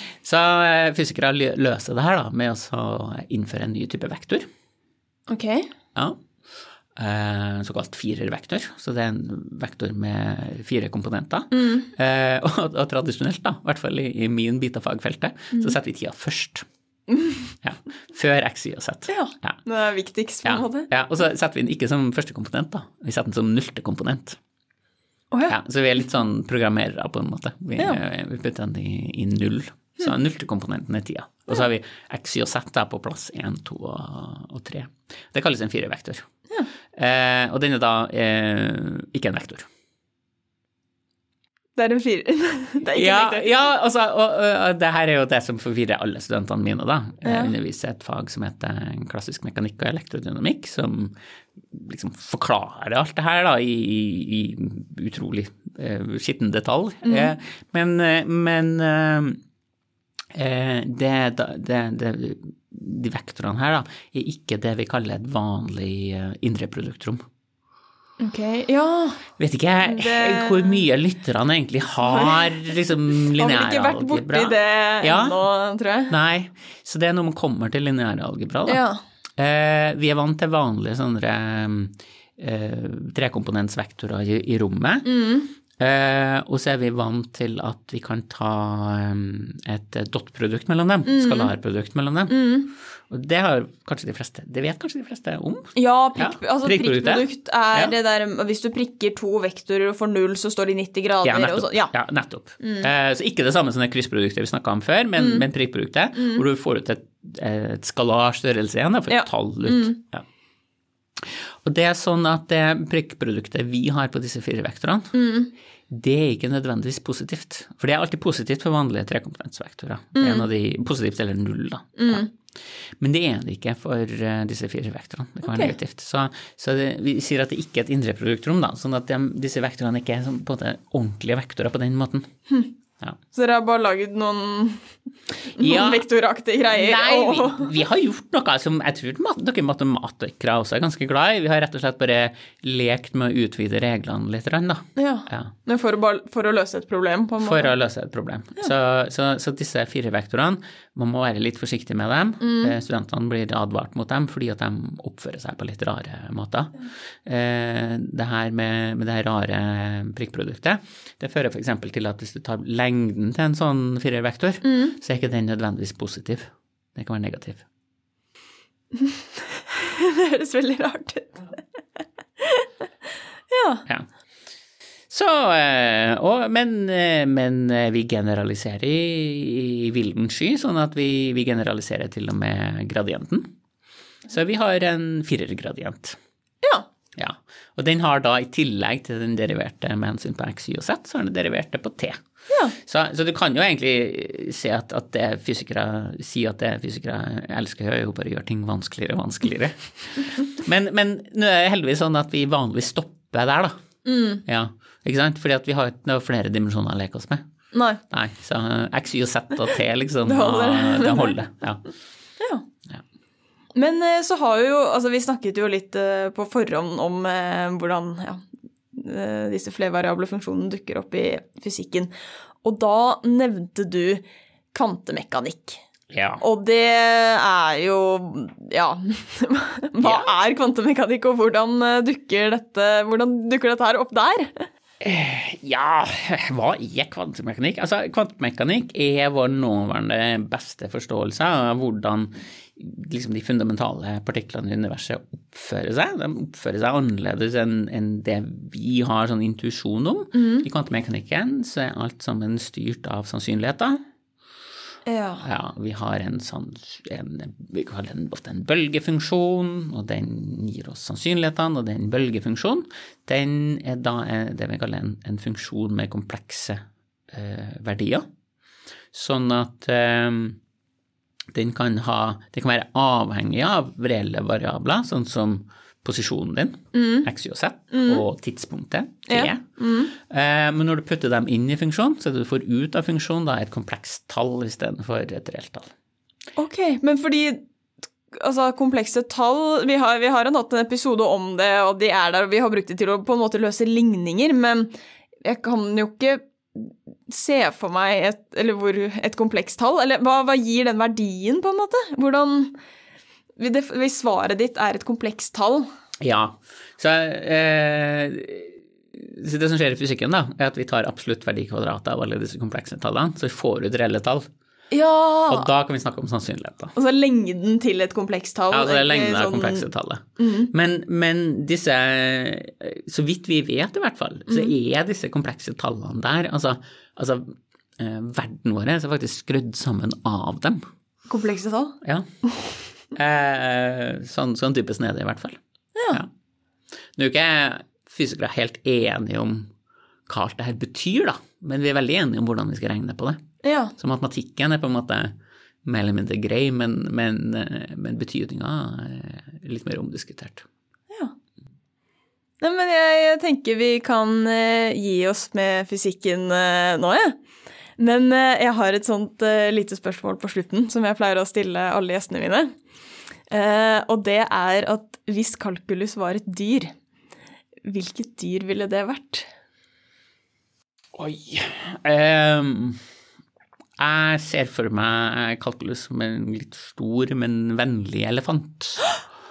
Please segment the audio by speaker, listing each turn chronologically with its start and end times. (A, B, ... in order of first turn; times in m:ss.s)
0:00.2-0:04.5 A
0:05.3-0:05.7 B
0:07.0-0:16.6 A
0:11.5-0:11.9 B
0:17.1-0:17.5 B
0:17.6-0:19.6 A
0:19.1-0:20.9 B
0:20.4-0:24.4 A
0:25.5-0:36.3 A
0:36.9-0:39.7 A
0:41.8-0:43.7 B
0:42.9-0:51.1 A
0:47.2-0:47.5 B
0:51.7-0:59.4 A
0:57.0-0:57.3 B
1:00.3-1:07.2 A
1:08.2-1:09.2 B
1:09.4-1:15.4 A
1:09.8-1:10.8 B
1:12.0-1:12.7 B
1:13.3-1:16.1 B
1:16.1-1:18.8 A
1:18.7-1:19.0 B
1:19.4-1:25.1 A
1:25.0-1:25.5 B
1:25.8-1:32.5 A
1:31.0-1:31.5 B
1:32.3-1:32.7 B
1:33.1-1:37.9 A
1:35.8-1:41.9 B
1:41.2-1:50.2 A
1:42.6-1:42.9 B
1:45.2-1:45.4 B
1:46.2-1:46.4 B
1:49.1-1:50.0 B
1:51.2-1:55.2 A
1:55.1-1:55.5 B
1:55.9-2:02.3 A
2:00.2-2:00.5 B
2:02.0-2:02.3 B
2:03.0-2:12.3 A
2:05.4-2:05.7 B
2:13.3-2:17.7 B
2:15.6-2:16.0 A
2:16.7-2:25.5 A
2:25.0-2:27.7 B
2:27.4-2:47.6 A
2:32.4-2:32.7 B
2:44.6-2:45.0 B
2:48.9-2:51.4 B
2:52.4-2:52.7 B
2:53.5-2:53.8 B
2:55.1-3:03.5 A
3:04.3-3:06.2 A
3:07.2-3:12.2 A
3:12.5-3:12.7 B
3:12.8-3:23.8 A
3:24.0-3:24.4 B
3:24.4-3:27.4 A
3:27.7-3:28.0 B
3:28.1-3:31.8 A
3:30.2-3:31.4 B
3:33.7-3:42.1 B
3:42.6-3:45.8 B
3:46.1-3:46.4 A
3:46.4-3:54.6 B
3:50.0-3:50.3 A
3:55.0-4:14.0 A
4:10.3-4:10.6 B
4:15.0-4:15.4 B
4:15.4-4:28.3 A
4:29.1-4:30.6 A
4:31.5-4:39.6 A
4:36.9-4:37.3 B
4:37.9-4:38.2 B
4:39.3-4:40.1 B
4:40.1-4:45.9 A
4:46.6-4:47.6 B
4:48.3-4:54.9 B
4:55.4-5:02.7 B
5:03.6-5:05.9 B
5:06.2-5:14.5 A
5:14.9-5:15.7 B
5:15.5-5:16.9 A
5:17.0-5:19.8 B
5:18.7-5:30.8 A
5:20.4-5:20.7 B
5:31.3-5:32.0 B
5:33.1-5:35.6 A
5:35.9-5:36.2 B
5:37.2-5:39.7 A
5:40.3-5:43.4 A
5:43.6-5:43.9 B
5:44.0-5:45.3 A
5:45.8-5:50.6 A
5:52.6-5:57.4 B
5:58.0-6:02.7 B
6:03.5-6:06.9 B
6:07.8-6:09.5 B
6:11.1-6:13.0 A
6:14.0-6:19.1 A